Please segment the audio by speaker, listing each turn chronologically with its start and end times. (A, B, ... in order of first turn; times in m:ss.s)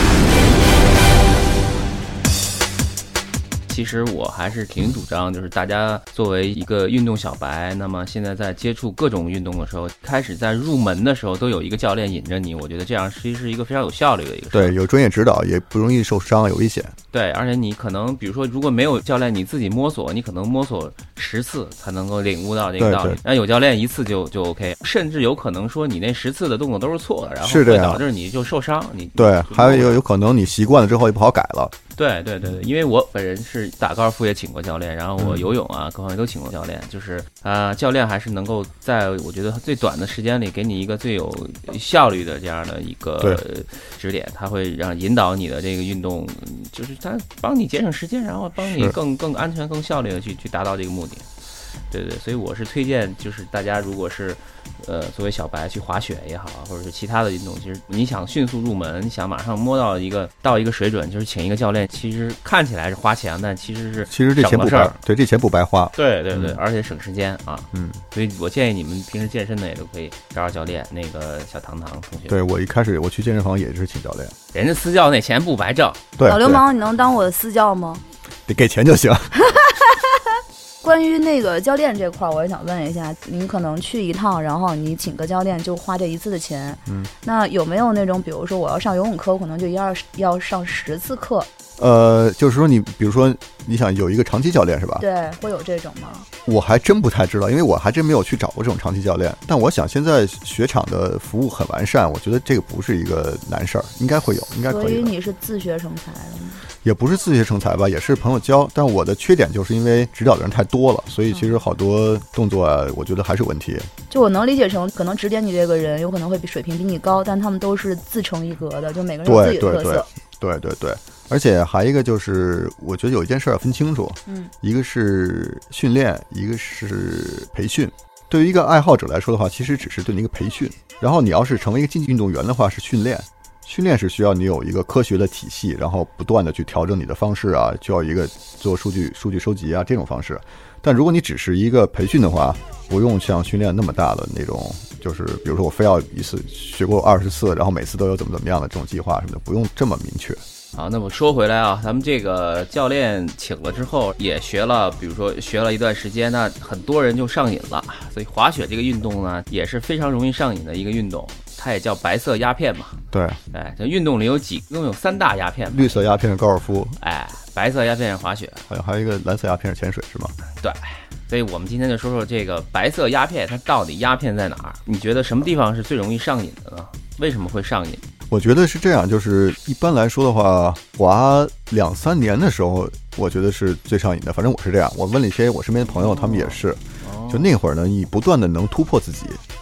0:03.7-0:14.7 A
0:14.5-0:16.9 B
0:17.1-0:30.0 A
0:22.8-0:23.2 B
0:27.4-0:28.0 B
0:29.2-0:31.7 B
0:32.0-0:51.2 A
0:35.2-0:35.5 B
0:48.6-0:49.0 B
0:51.9-1:05.0 A
1:04.1-1:06.6 B
1:06.0-1:12.4 A
1:07.7-1:08.0 B
1:12.3-1:14.3 B
1:14.5-1:16.0 A
1:16.2-1:16.6 B
1:16.2-1:18.0 C
1:18.5-1:19.3 B
1:19.5-1:20.2 C
1:20.8-1:31.5 C
1:31.8-1:35.0 B
1:35.0-1:36.3 C
1:36.4-1:45.1 B
1:44.7-1:46.6 C
1:46.8-1:53.9 B
1:54.1-2:00.1 C
1:59.2-2:30.4 B
2:04.3-2:04.5 C
2:30.7-2:43.0 A
2:43.1-2:43.4 B
2:43.5-2:46.1 A
2:45.7-2:47.0 B
2:47.0-2:48.6 A
2:48.7-2:50.3 B
2:50.6-2:58.0 A
2:58.3-3:09.4 B
3:05.9-3:07.5 A